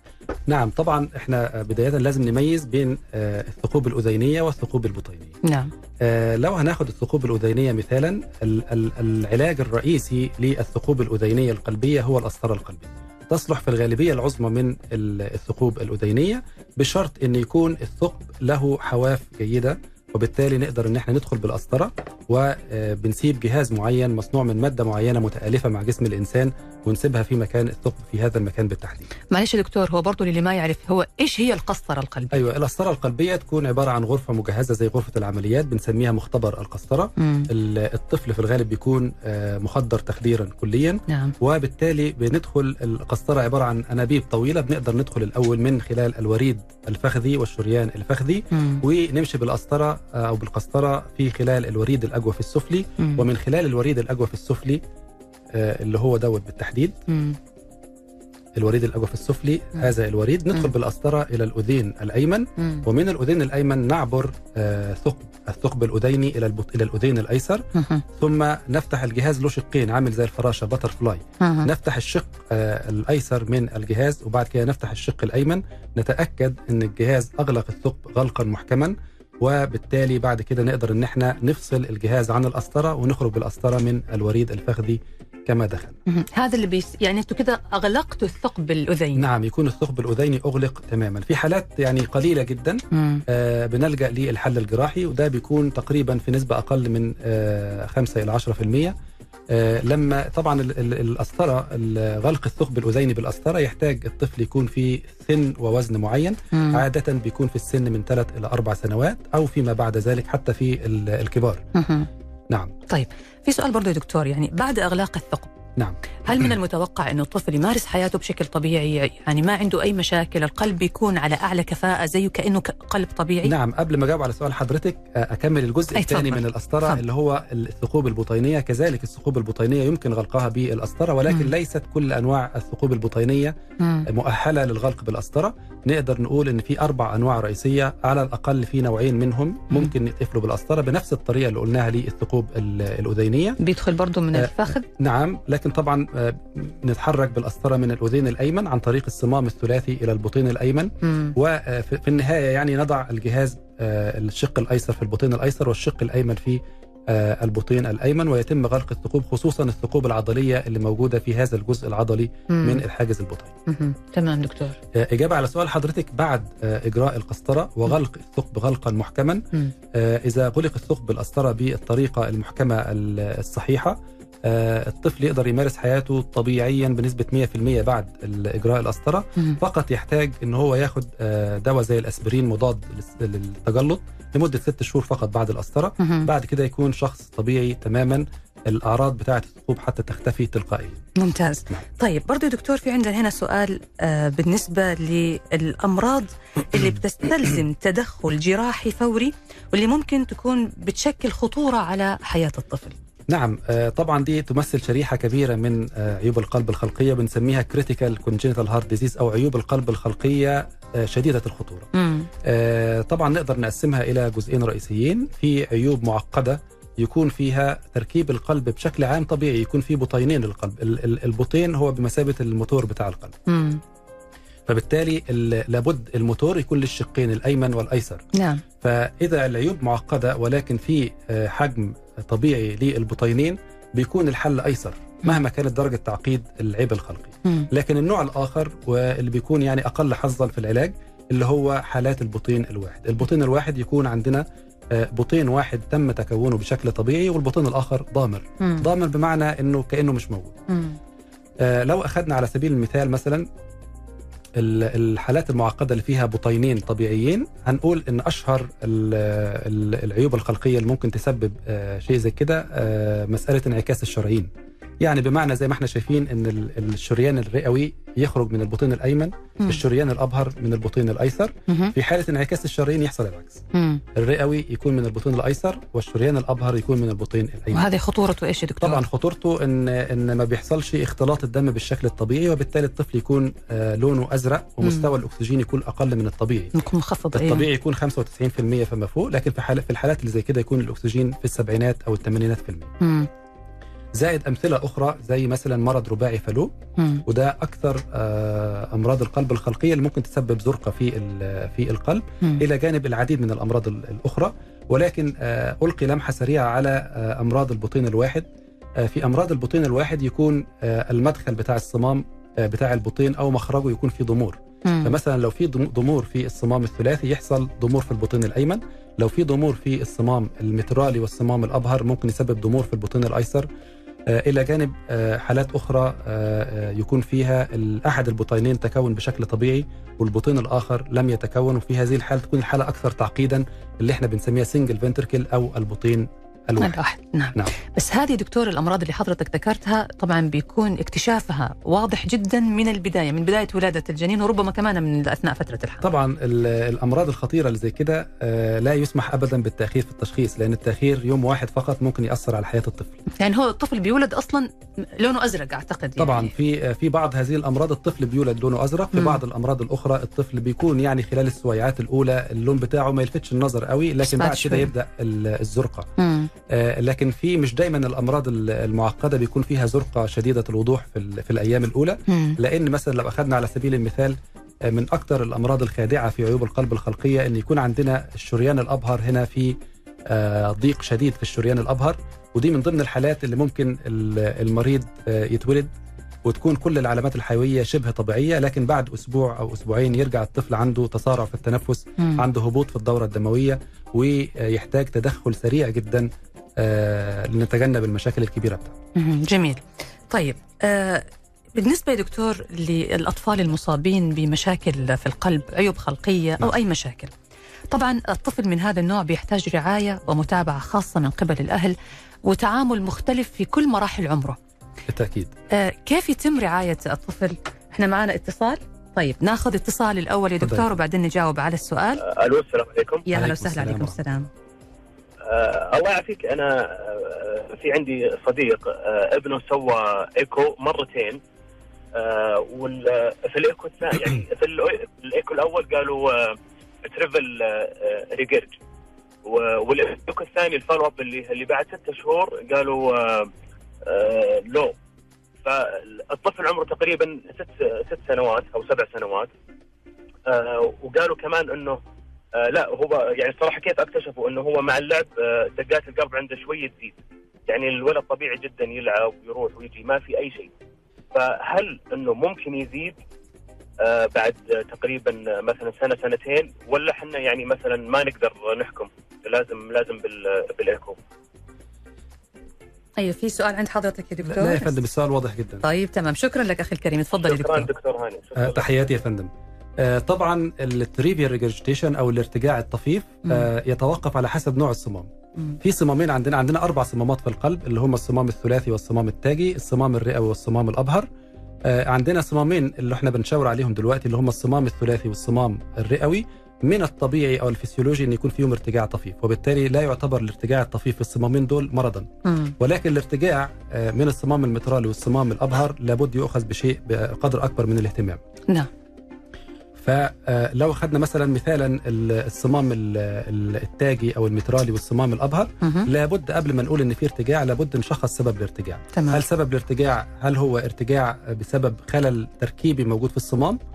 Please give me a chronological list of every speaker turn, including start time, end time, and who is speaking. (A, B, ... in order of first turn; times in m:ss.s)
0:00.5-0:05.3 A
0:05.4-0:05.7 B
0:06.0-0:29.1 A
0:29.3-0:32.4 B
0:32.3-0:54.8 A
0:37.2-0:37.5 B
0:41.1-0:41.3 B
0:48.5-0:48.8 B
0:55.5-0:57.0 A
0:57.1-0:57.4 B
0:58.6-1:26.0 A
1:02.6-1:02.8 B
1:07.8-1:08.0 B
1:11.4-1:11.7 B
1:26.1-1:29.2 B
1:29.2-1:39.0 A
1:32.9-1:33.2 B
1:39.5-1:51.6 A
1:46.5-1:46.8 B
1:51.8-1:52.1 B
1:52.9-1:55.5 B
1:56.2-2:03.5 B
2:03.4-2:13.6 A
2:06.0-2:07.0 B
2:13.8-2:14.1 B
2:14.1-2:23.6 A
2:23.6-2:24.8 B
2:24.4-2:43.6 A
2:31.0-2:31.4 B
2:42.5-2:42.8 B
2:43.7-2:44.8 B
2:44.9-3:11.0 A
3:06.0-3:06.3 B
3:11.2-3:23.0 B
3:23.3-3:31.9 A
3:31.9-3:32.3 B
3:32.4-3:43.4 A
3:43.5-3:43.8 B
3:44.7-3:48.2 A
3:48.3-3:48.6 B
3:48.8-4:10.6 A
4:08.6-4:08.9 B
4:10.7-4:11.0 B
4:11.6-4:13.5 A
4:14.6-4:24.5 A
4:25.0-4:33.6 A
4:31.7-4:31.9 B
4:33.7-4:34.0 B
4:34.2-4:37.9 A
4:37.7-4:39.0 B
4:38.8-4:46.7 A
4:46.7-4:47.7 B
4:47.3-4:52.9 A
4:53.0-4:53.3 B
4:54.2-4:56.7 A
4:57.0-4:57.2 B
4:57.2-5:08.5 A
5:09.0-5:23.7 A
5:14.8-5:15.1 B
5:24.3-5:37.0 A
5:36.8-5:46.0 B
5:46.0-5:53.2 A
5:53.4-5:56.5 B
5:56.2-6:06.1 A
6:04.2-6:04.9 B
6:06.2-6:06.5 B
6:06.7-6:25.9 A
6:12.3-6:12.6 B
6:26.4-6:39.0 A
6:39.2-6:47.3 B
6:47.9-6:54.6 B
6:55.1-6:55.5 A
6:55.7-7:02.2 B
7:00.6-7:00.9 A
7:02.2-7:03.3 C
7:03.3-7:04.5 B
7:03.4-7:04.2 A
7:05.5-7:11.4 C
7:12.1-7:18.8 C
7:19.4-7:23.5 C
7:24.0-7:25.0 C
7:25.6-7:29.5 C
7:30.5-7:32.0 C
7:32.6-7:37.2 C
7:37.7-7:40.7 C
7:41.3-7:43.2 C
7:44.0-7:51.2 C
7:53.2-7:55.0 B
7:54.4-7:55.9 A
7:55.8-7:57.9 B
7:57.4-7:58.9 C
7:58.6-8:05.3 A
8:05.8-8:11.3 A
8:11.8-8:28.4 A
8:22.4-8:22.8 B
8:30.0-8:43.8 A
8:35.8-8:36.1 B
8:39.1-8:39.4 B